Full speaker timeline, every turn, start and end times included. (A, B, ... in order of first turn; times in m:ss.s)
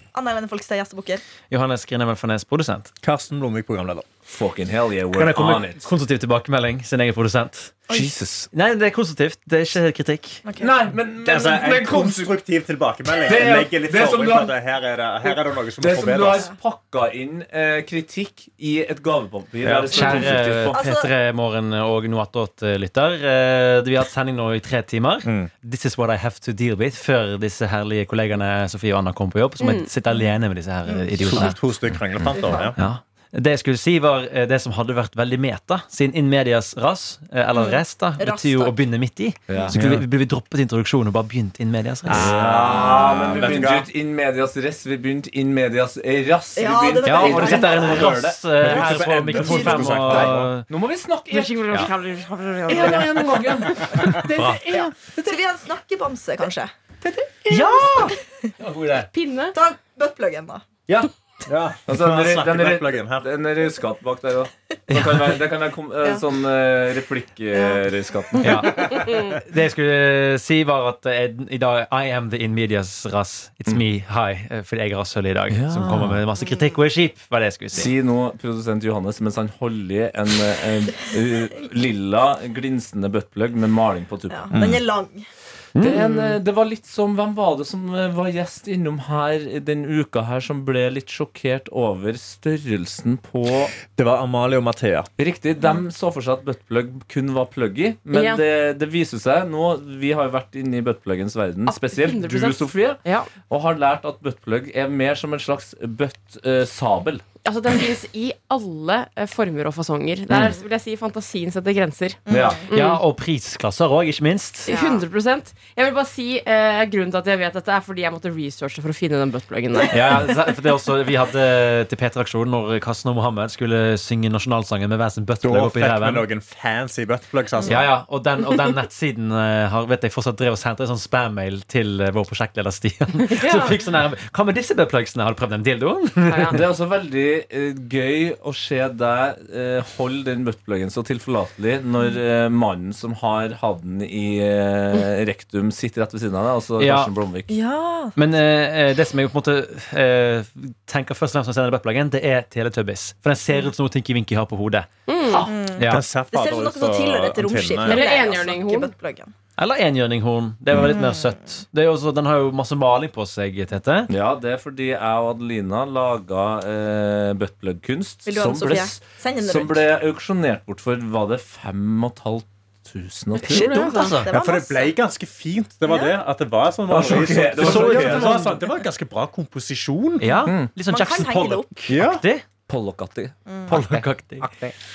0:00.1-0:01.2 A
0:01.5-0:02.9 B
0:03.0-0:04.1 C
0:04.3-0:05.9 D
0:05.1-0:07.8 B
0:07.9-0:08.5 D
0:08.5-0:10.4 B
0:10.4-0:10.7 A
0:10.6-0:12.4 D
0:11.2-0:16.5 C
0:13.2-0:14.5 D
0:15.2-0:20.8 D
0:19.6-0:20.4 C
0:19.9-0:31.6 B
0:20.7-0:21.1 A
0:25.2-0:25.5 C
0:29.6-0:29.9 E
0:30.9-0:31.5 A
0:31.2-0:32.8 C
0:32.4-0:32.7 A
0:32.7-0:42.6 B
0:37.5-0:38.8 A
0:39.5-0:39.8 D
0:39.7-0:40.0 C
0:42.0-0:43.9 C
0:42.1-0:49.0 D
0:46.6-0:48.2 A
0:47.0-0:50.6 B
0:48.6-0:50.5 C
0:49.4-0:49.9 A
0:49.8-0:51.9 D
0:51.3-0:53.4 E
0:52.7-0:54.9 D
0:53.9-0:54.9 B
0:55.0-0:56.7 A
0:57.0-0:58.1 C
0:57.5-0:59.1 B
0:59.1-0:59.6 E
0:59.5-1:00.6 A
1:00.9-1:03.3 C
1:01.9-1:08.9 D
1:04.9-1:05.4 B
1:07.5-1:07.8 A
1:08.4-1:17.9 B
1:08.7-1:09.1 C
1:15.5-1:16.2 D
1:17.7-1:24.7 D
1:24.3-1:25.2 A
1:24.5-1:24.8 C
1:25.8-1:26.1 B
1:25.8-1:33.7 D
1:25.9-1:26.3 E
1:33.9-1:35.1 C
1:35.2-1:47.2 D
1:38.1-1:38.4 E
1:41.7-1:43.3 E
1:47.4-1:53.0 E
1:52.3-1:52.6 A
1:52.3-1:52.7 D
1:52.7-1:54.8 B
1:54.7-2:00.0 E
1:59.9-2:06.3 B
2:05.4-2:07.9 C
2:07.7-2:16.6 B
2:13.3-2:13.8 E
2:16.3-2:16.6 E
2:16.5-2:27.6 D
2:26.8-2:27.1 B
2:27.5-2:28.2 A
2:28.2-2:36.1 B
2:35.1-2:35.5 E
2:35.5-2:39.3 A
2:35.9-2:38.1 C
2:37.9-2:38.9 E
2:39.6-2:44.1 B
2:40.8-2:41.5 A
2:44.1-2:53.8 D
2:48.3-2:49.9 A
2:53.4-2:54.3 B
2:53.4-2:54.1 E
2:53.9-2:54.9 A
2:54.3-3:00.5 C
2:55.8-2:56.2 A
2:56.9-2:58.4 D
2:57.5-2:58.6 B
3:00.2-3:02.5 B
3:00.4-3:00.7 D
3:00.9-3:01.7 A
3:01.9-3:02.2 C
3:02.7-3:04.1 D
3:03.5-3:03.8 A
3:03.7-3:04.5 B
3:04.4-3:04.7 C